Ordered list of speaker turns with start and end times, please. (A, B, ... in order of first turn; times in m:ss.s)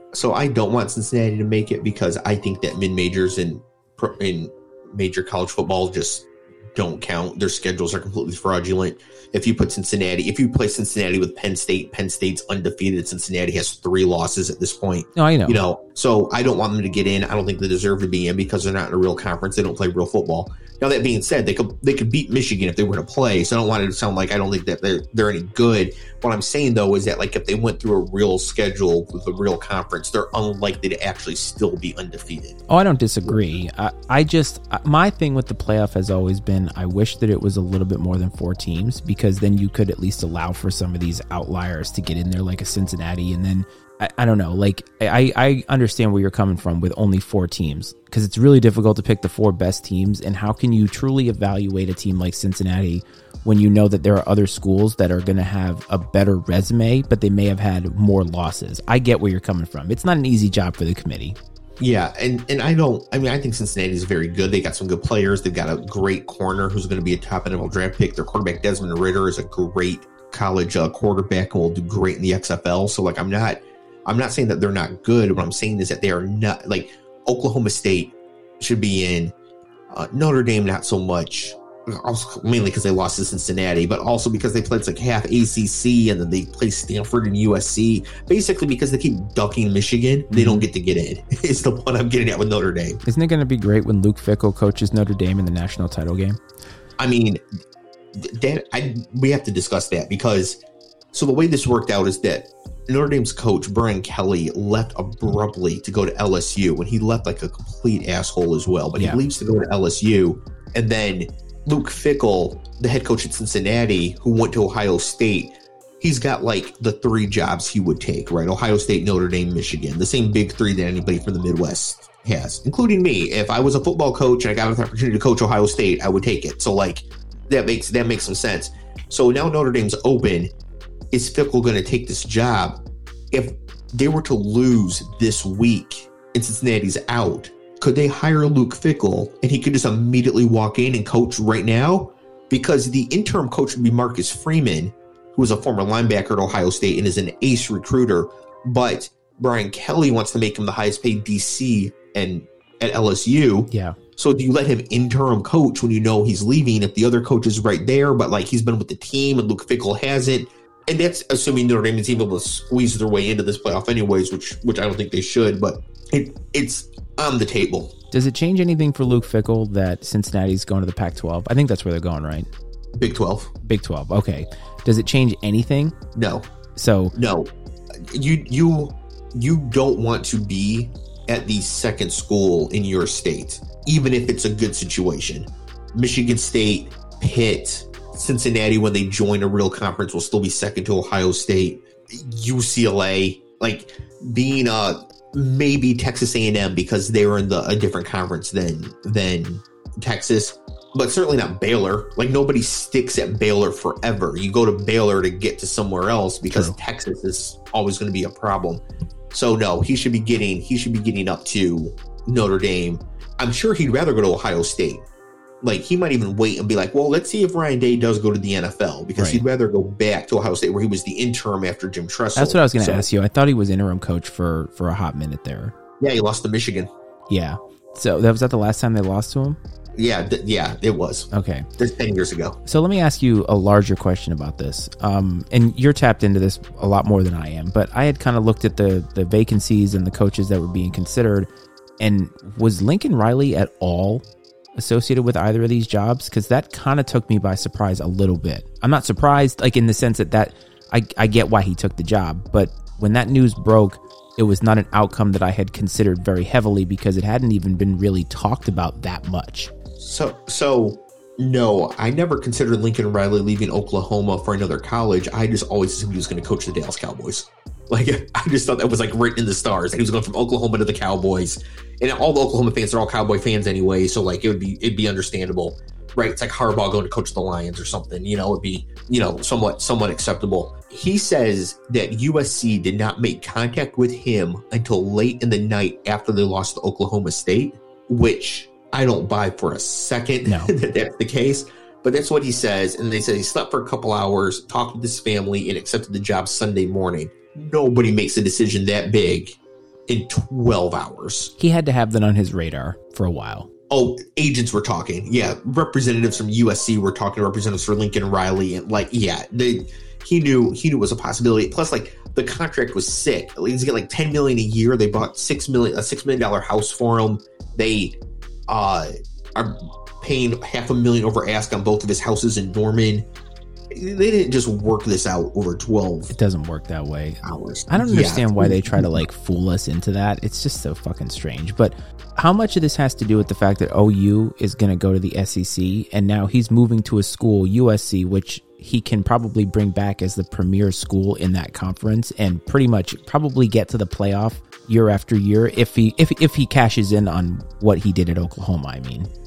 0:00.1-0:32.6 A
0:15.2-0:15.6 B
0:32.7-1:01.4 B
1:01.8-1:19.3 A
1:19.9-1:33.0 A
1:30.3-1:30.6 B
1:33.0-1:36.4 B
1:37.0-1:37.4 A
1:38.1-1:40.6 A
1:41.1-2:10.5 A
2:11.1-2:47.9 A
2:33.7-2:34.0 B
2:48.1-2:52.5 B
2:52.9-2:53.5 A
2:53.6-2:55.9 B
2:56.1-2:56.5 A
2:56.8-2:57.1 B
2:57.1-2:57.5 A
2:58.1-3:35.0 A
3:26.5-3:26.8 B
3:35.6-3:43.0 A
3:39.2-3:39.4 B
3:42.4-3:45.7 B
3:46.0-3:46.9 A
3:47.3-3:49.6 B
3:50.0-3:52.6 A
3:51.3-3:51.7 B
3:52.6-4:01.5 B
4:02.0-4:04.2 B
4:04.8-4:19.7 B
4:20.0-5:01.5 A
4:50.4-4:50.7 B
5:01.6-5:03.7 B
5:03.9-5:18.2 A
5:18.7-5:23.3 A
5:23.9-5:26.3 A
5:26.3-5:49.3 B
5:27.4-5:29.2 A